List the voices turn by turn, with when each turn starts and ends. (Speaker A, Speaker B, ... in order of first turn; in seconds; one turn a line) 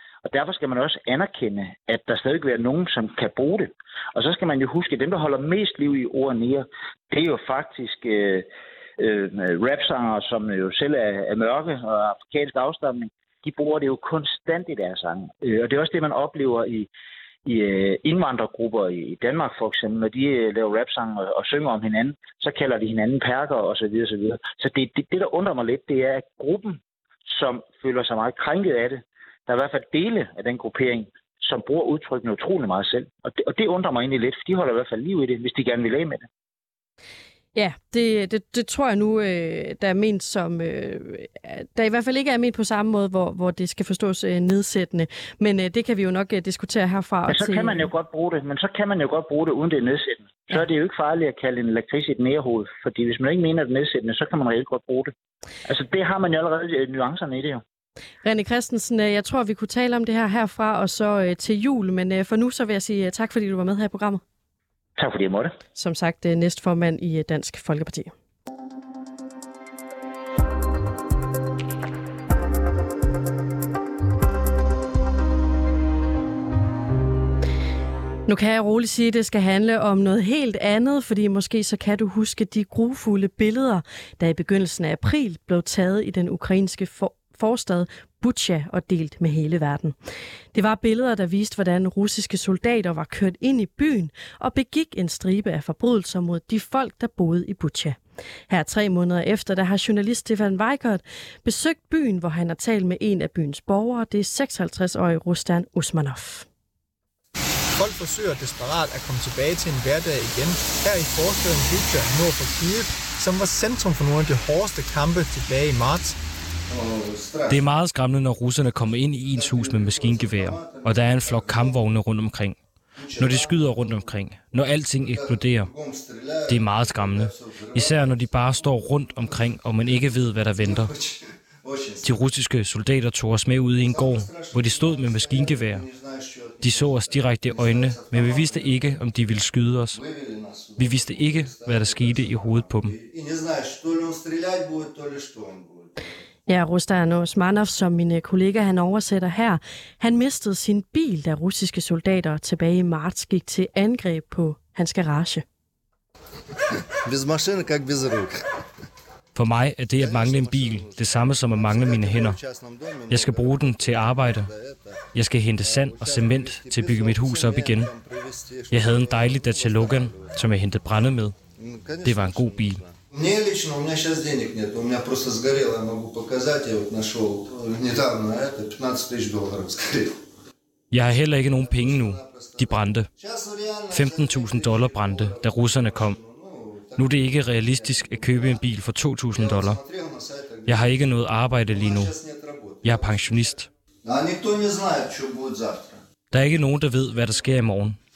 Speaker A: 0.2-16.9
Speaker A: 17.4-36.3
Speaker B: 37.5-47.9
Speaker A: 47.3-55.1
Speaker A: 55.6-57.6
Speaker B: 58.2-64.2
Speaker A: 65.0-65.5
Speaker B: 65.8-68.1
Speaker B: 78.3-89.9
Speaker B: 90.5-98.0
Speaker B: 98.5-106.5
Speaker C: 107.7-116.2
Speaker D: 116.7-117.7
Speaker E: 117.5-122.6
Speaker D: 118.9-121.8
Speaker D: 123.0-124.2
Speaker E: 123.2-125.7
Speaker D: 124.9-132.2
Speaker E: 126.5-130.9
Speaker E: 132.0-135.8
Speaker D: 133.8-146.2
Speaker E: 136.6-140.0
Speaker E: 140.8-142.9
Speaker B: 146.5-155.4
Speaker D: 157.0-158.4
Speaker E: 159.3-162.4
Speaker D: 159.9-165.0
Speaker E: 163.1-164.5
Speaker E: 165.1-167.9
Speaker D: 165.6-180.2
Speaker E: 168.7-171.4
Speaker E: 172.0-172.8
Speaker E: 180.9-183.1
Speaker D: 181.1-196.0
Speaker E: 183.9-186.2
Speaker E: 187.0-189.8
Speaker E: 190.7-192.1
Speaker E: 192.8-193.7
Speaker E: 196.3-198.0